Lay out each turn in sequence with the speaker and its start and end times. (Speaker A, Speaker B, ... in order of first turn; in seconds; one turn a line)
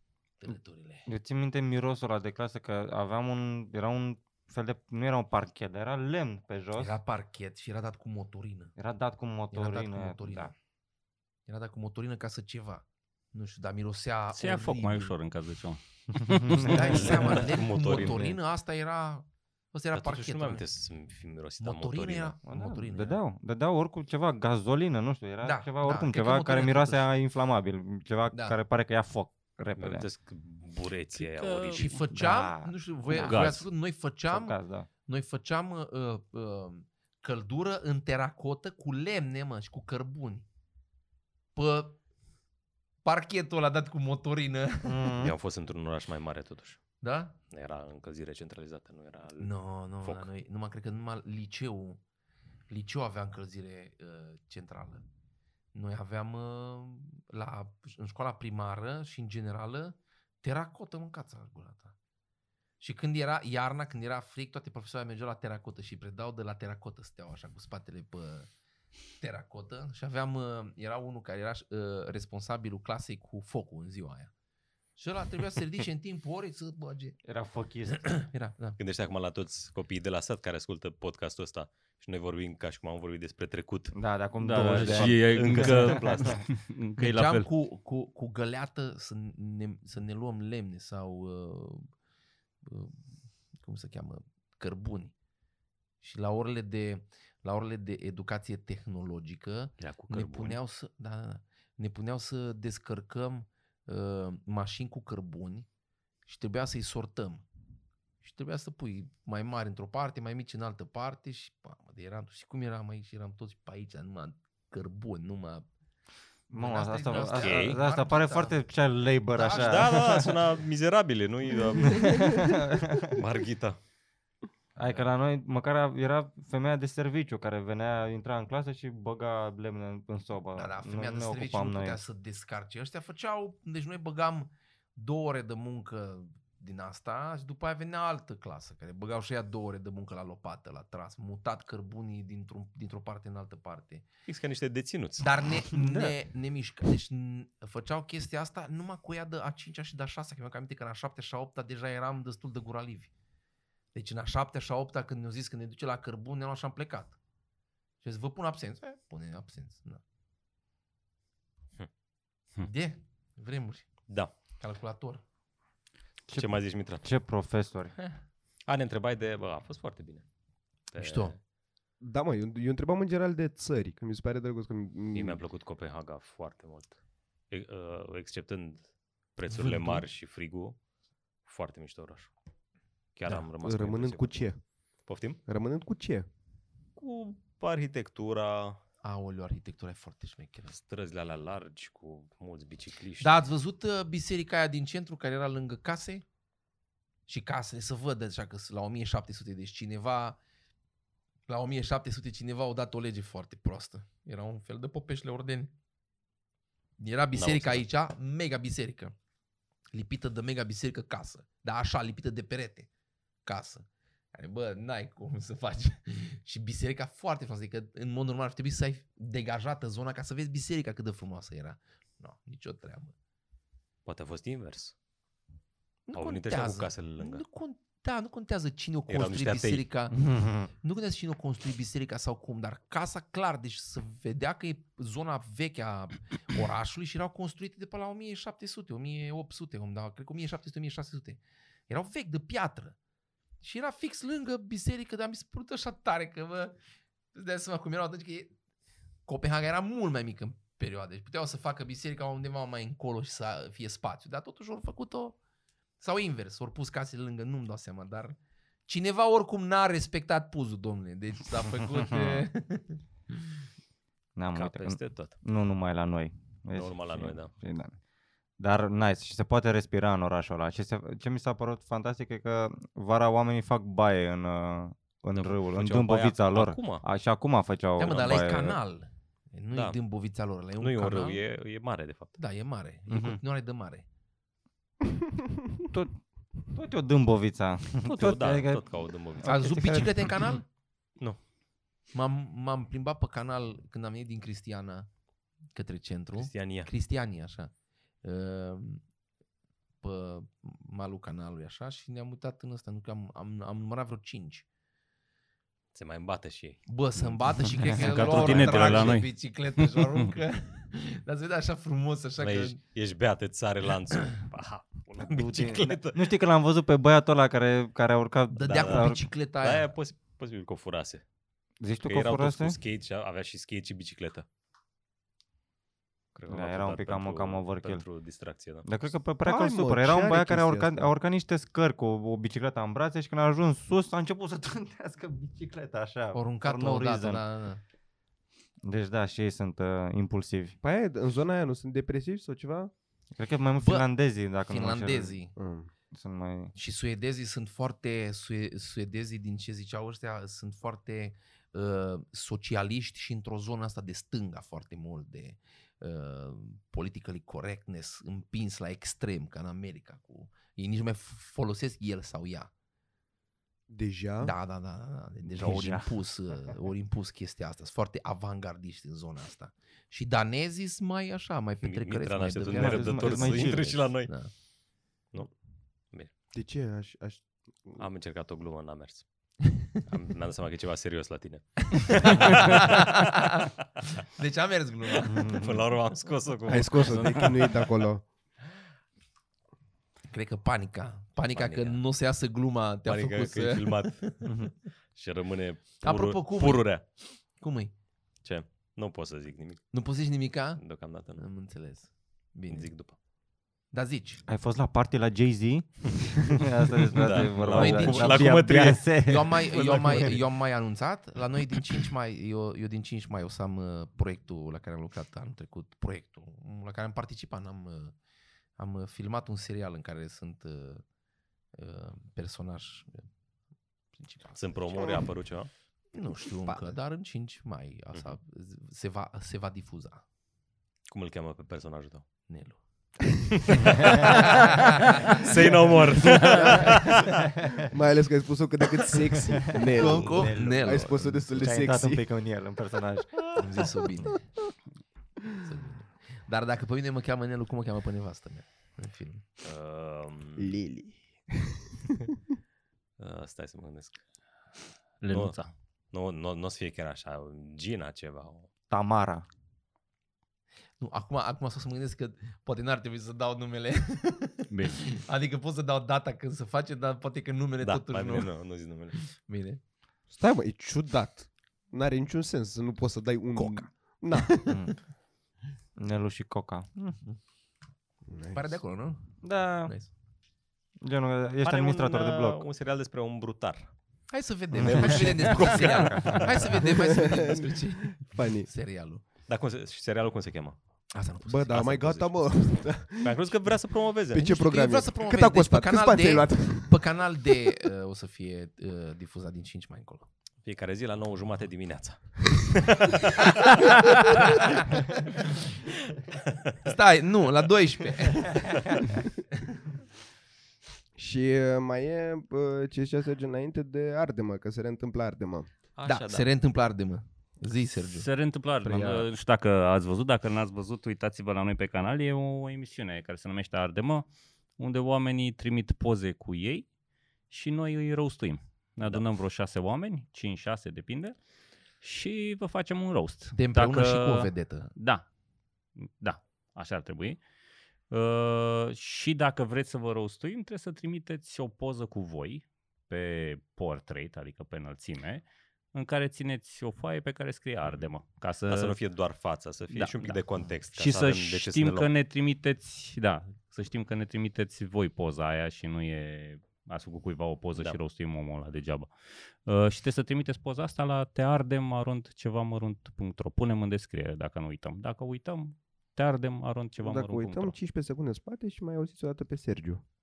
Speaker A: 0.4-1.1
Speaker B: 1.1-7.0
Speaker A: 6.7-8.7
Speaker B: 8.8-10.5
Speaker A: 9.5-10.5
Speaker A: 11.5-15.1
Speaker C: 14.3-17.4
Speaker B: 16.5-16.9
Speaker A: 16.6-20.6
Speaker D: 16.8-18.4
Speaker D: 19.9-22.3
Speaker A: 21.6-23.2
Speaker B: 22.5-30.1
Speaker A: 25.4-27.1
Speaker A: 28.3-28.6
Speaker D: 29.8-31.9
Speaker C: 31.1-32.0
Speaker A: 31.7-40.4
Speaker B: 32.1-33.4
Speaker C: 33.1-33.7
Speaker B: 34.3-34.9
Speaker A: 41.5-42.0
Speaker A: 43.0-45.2
Speaker B: 44.8-45.4
Speaker D: 45.2-46.9
Speaker A: 47.0-47.4
Speaker D: 47.5-50.3
Speaker A: 49.4-52.0
Speaker A: 52.7-55.0
Speaker A: 55.7-61.9
Speaker A: 62.8-68.5
Speaker A: 69.2-74.3
Speaker A: 75.0-77.2
Speaker B: 77.2-78.2
Speaker A: 78.0-78.8
Speaker D: 78.8-86.5
Speaker B: 83.9-86.3
Speaker C: 84.4-87.5
Speaker A: 87.0-91.9
Speaker A: 92.6-93.0
Speaker A: 93.6-95.1
Speaker A: 96.0-105.7
Speaker D: 99.8-100.6
Speaker A: 106.2-107.4
Speaker A: 108.2-115.7
Speaker B: 116.5-120.3
Speaker A: 116.5-118.6
Speaker D: 117.1-117.8
Speaker A: 119.3-120.1
Speaker D: 119.4-122.5
Speaker B: 121.8-123.1
Speaker D: 123.0-123.8
Speaker B: 124.8-132.0
Speaker A: 130.5-144.1
Speaker D: 144.2-145.3
Speaker A: 145.2-153.1
Speaker B: 145.8-146.1
Speaker A: 153.9-157.2
Speaker A: 158.0-160.0
Speaker A: 162.6-163.9
Speaker A: 164.6-165.2
Speaker B: 166.3-167.9
Speaker D: 166.3-167.1
Speaker D: 168.7-170.2
Speaker D: 170.9-171.4
Speaker A: 171.0-171.3
Speaker E: 172.0-175.4
Speaker D: 175.1-176.9
Speaker D: 177.5-180.8
Speaker A: 179.5-180.0
Speaker D: 181.4-182.3
Speaker D: 183.1-184.5
Speaker E: 183.6-184.6
Speaker D: 185.1-185.4
Speaker E: 185.5-186.2
Speaker D: 186.9-188.8
Speaker A: 189.0-190.8
Speaker D: 190.7-193.3
Speaker A: 193.2-196.2
Speaker A: 197.3-200.4
Speaker A: 201.5-205.7
Speaker A: 207.0-209.1
Speaker D: 207.3-207.8
Speaker A: 209.9-212.9
Speaker A: 213.4-223.1
Speaker D: 224.0-224.9
Speaker A: 226.1-230.2
Speaker D: 226.1-227.4
Speaker D: 229.1-229.8
Speaker B: 230.1-230.7
Speaker A: 230.8-242.9
Speaker A: 243.6-246.7
Speaker A: 247.3-248.5
Speaker A: 249.3-255.4
Speaker A: 256.0-263.5
Speaker B: 261.9-262.4
Speaker B: 264.4-268.0
Speaker D: 264.5-265.3
Speaker D: 266.7-267.5
Speaker B: 268.6-278.8
Speaker D: 275.3-277.0
Speaker A: 278.0-281.4
Speaker D: 279.7-280.0
Speaker D: 280.8-282.4
Speaker A: 282.4-284.1
Speaker B: 283.1-283.4
Speaker B: 285.9-290.5
Speaker D: 288.0-289.5
Speaker A: 289.4-290.6
Speaker A: 292.1-295.1
Speaker A: 295.7-297.7
Speaker D: 296.4-296.9
Speaker A: 298.2-299.0
Speaker A: 300.0-304.6
Speaker D: 305.9-309.1
Speaker A: 306.9-312.8
Speaker C: 307.9-310.3
Speaker D: 312.4-316.3
Speaker C: 314.5-315.0
Speaker B: 315.2-319.2
Speaker A: 318.5-319.9
Speaker D: 318.7-321.2
Speaker B: 321.8-322.8
Speaker D: 322.0-324.4
Speaker D: 326.3-328.9
Speaker B: 326.5-328.0
Speaker B: 328.8-337.4
Speaker E: 329.4-331.1
Speaker A: 336.3-337.8
Speaker B: 338.8-340.8
Speaker E: 340.8-342.9
Speaker B: 343.4-345.4
Speaker A: 343.8-344.1
Speaker A: 344.6-345.5
Speaker E: 345.6-345.9
Speaker B: 346.1-346.7
Speaker A: 346.7-362.7
Speaker E: 363.9-364.5
Speaker A: 364.4-374.5
Speaker B: 365.5-366.1
Speaker D: 371.8-374.3
Speaker B: 372.7-374.0
Speaker E: 376.5-378.1
Speaker D: 378.0-383.7
Speaker A: 382.1-385.4
Speaker D: 385.1-387.8
Speaker B: 385.3-385.8
Speaker E: 386.7-388.2
Speaker A: 390.3-394.5
Speaker D: 391.5-392.0
Speaker D: 393.1-394.4
Speaker D: 395.1-397.0
Speaker A: 396.0-397.9
Speaker D: 398.4-399.9
Speaker A: 399.9-400.8
Speaker D: 400.8-401.4
Speaker A: 401.4-402.9
Speaker D: 402.7-403.1
Speaker A: 403.9-404.4
Speaker B: 404.5-410.4
Speaker D: 407.1-409.1
Speaker A: 407.7-418.1
Speaker A: 418.8-421.0
Speaker A: 421.7-423.2
Speaker A: 424.1-425.3
Speaker D: 424.5-425.7
Speaker A: 426.1-430.2
Speaker E: 426.7-426.9
Speaker D: 431.1-432.3
Speaker A: 432.5-432.8
Speaker D: 433.7-434.7
Speaker A: 433.7-435.4
Speaker D: 435.2-437.3
Speaker E: 435.6-437.2
Speaker C: 436.3-436.7
Speaker E: 437.9-442.3
Speaker B: 439.8-443.5
Speaker A: 439.9-441.7
Speaker A: 443.5-444.5
Speaker A: 445.6-449.4
Speaker D: 449.6-450.8
Speaker E: 450.6-452.3
Speaker D: 453.2-454.2
Speaker C: 455.2-455.7
Speaker D: 455.3-455.6
Speaker D: 456.1-458.7
Speaker B: 458.9-459.4
Speaker A: 461.0-468.6
Speaker C: 464.7-465.0
Speaker D: 467.8-469.1
Speaker A: 469.1-469.8
Speaker E: 470.3-474.8
Speaker A: 473.6-474.8
Speaker B: 474.7-474.9
Speaker B: 476.0-477.2
Speaker E: 478.3-478.6
Speaker A: 478.5-480.1
Speaker B: 479.4-479.9
Speaker B: 481.0-482.6
Speaker D: 481.6-483.9
Speaker A: 484.3-489.2
Speaker B: 484.8-486.7
Speaker E: 484.9-485.9
Speaker D: 485.0-486.4
Speaker E: 486.6-488.7
Speaker D: 489.4-490.8
Speaker A: 491.1-492.1
Speaker E: 491.4-493.7
Speaker D: 491.7-492.5
Speaker D: 493.2-494.5
Speaker E: 494.3-497.8
Speaker A: 494.3-500.3
Speaker D: 500.6-504.7
Speaker A: 503.9-505.0
Speaker A: 506.8-509.2
Speaker E: 511.1-515.7
Speaker D: 516.0-516.5
Speaker A: 516.0-518.3
Speaker C: 518.1-526.9
Speaker E: 518.9-519.2
Speaker C: 527.5-531.4
Speaker C: 532.0-535.3
Speaker A: 533.5-534.9
Speaker C: 536.0-537.4
Speaker C: 538.1-549.0
Speaker D: 548.6-552.1
Speaker C: 549.9-559.1
Speaker C: 559.6-567.7
Speaker E: 567.0-570.0